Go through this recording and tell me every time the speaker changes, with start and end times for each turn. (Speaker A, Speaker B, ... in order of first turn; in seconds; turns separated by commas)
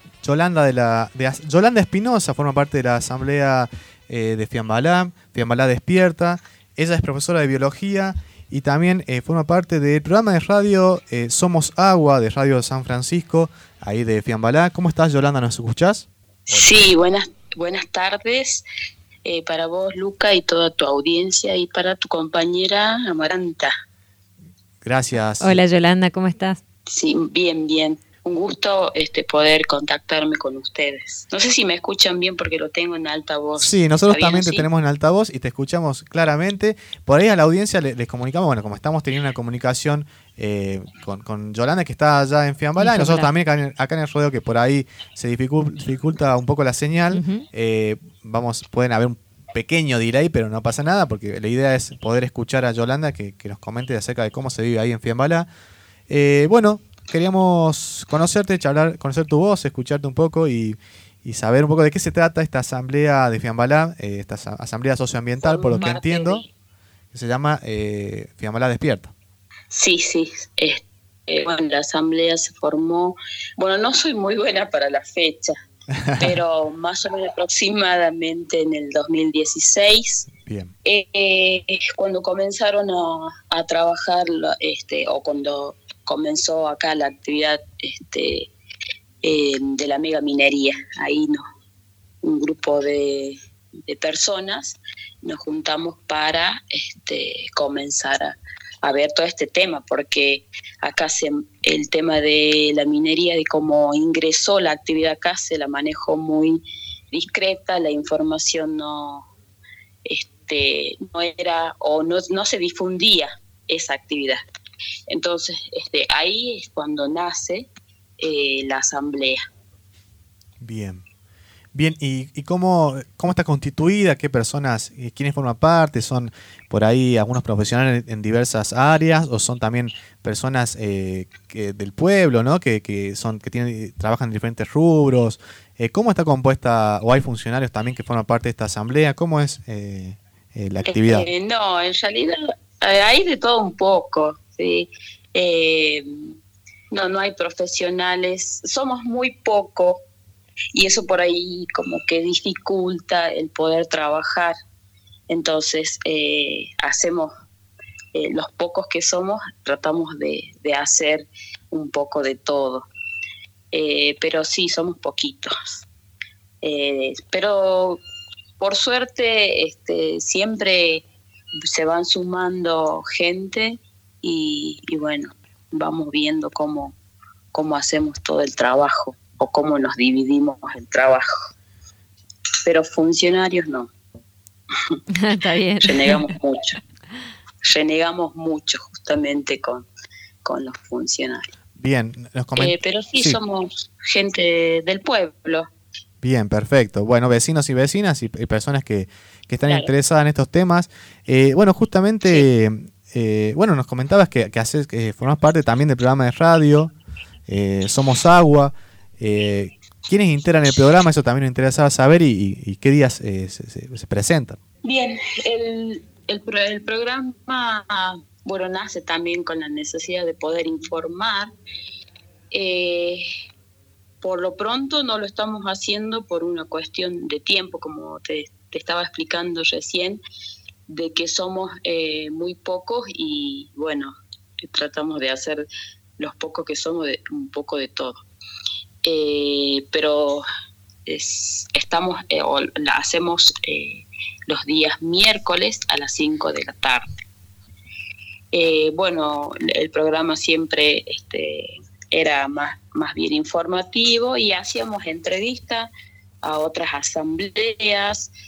Speaker A: 0.2-16.9, Speaker B: 16.5-18.6, Speaker B: 19.2-23.7, Speaker A: 24.8-25.6, Speaker C: 25.4-26.6, Speaker B: 26.9-34.7, Speaker A: 33.6-55.5, Speaker C: 42.8-43.3, Speaker C: 47.1-47.4, Speaker A: 56.1-66.4, Speaker B: 65.4-66.5, Speaker A: 67.1-69.1, Speaker B: 69.7-75.5, Speaker A: 76.0-76.3, Speaker B: 76.2-80.3, Speaker A: 80.4-80.7, Speaker B: 80.8-88.5, Speaker B: 89.2-91.4, Speaker B: 92.2-106.6, Speaker B: 107.1-109.3, Speaker B: 110.0-114.4, Speaker B: 115.1-117.7, Speaker B: 118.2-119.4, Speaker A: 120.6-121.0, Speaker A: 121.7-141.3, Speaker B: 140.9-146.3, Speaker B: 146.9-150.0, Speaker B: 150.7-154.5, Speaker B: 155.3-157.3, Speaker B: 158.1-162.9, Speaker B: 163.7-165.8, Speaker B: 166.6-168.0, Speaker B: 168.6-171.0, Speaker B: 171.6-176.9, Speaker B: 177.5-181.4, Speaker B: 182.7-183.9, Speaker C: 185.2-186.3, Speaker B: 185.8-186.8, Speaker B: 187.6-189.9, Speaker B: 190.4-191.5, Speaker A: 191.8-193.4, Speaker B: 192.6-195.7, Speaker A: 196.2-206.9, Speaker B: 199.7-199.9, Speaker A: 207.5-214.6, Speaker B: 214.8-221.5, Speaker B: 222.5-223.2, Speaker B: 224.2-230.2, Speaker B: 230.9-235.7, Speaker B: 236.2-238.2, Speaker B: 239.0-240.4, Speaker B: 241.1-247.1, Speaker B: 248.5-255.9, Speaker B: 256.4-258.3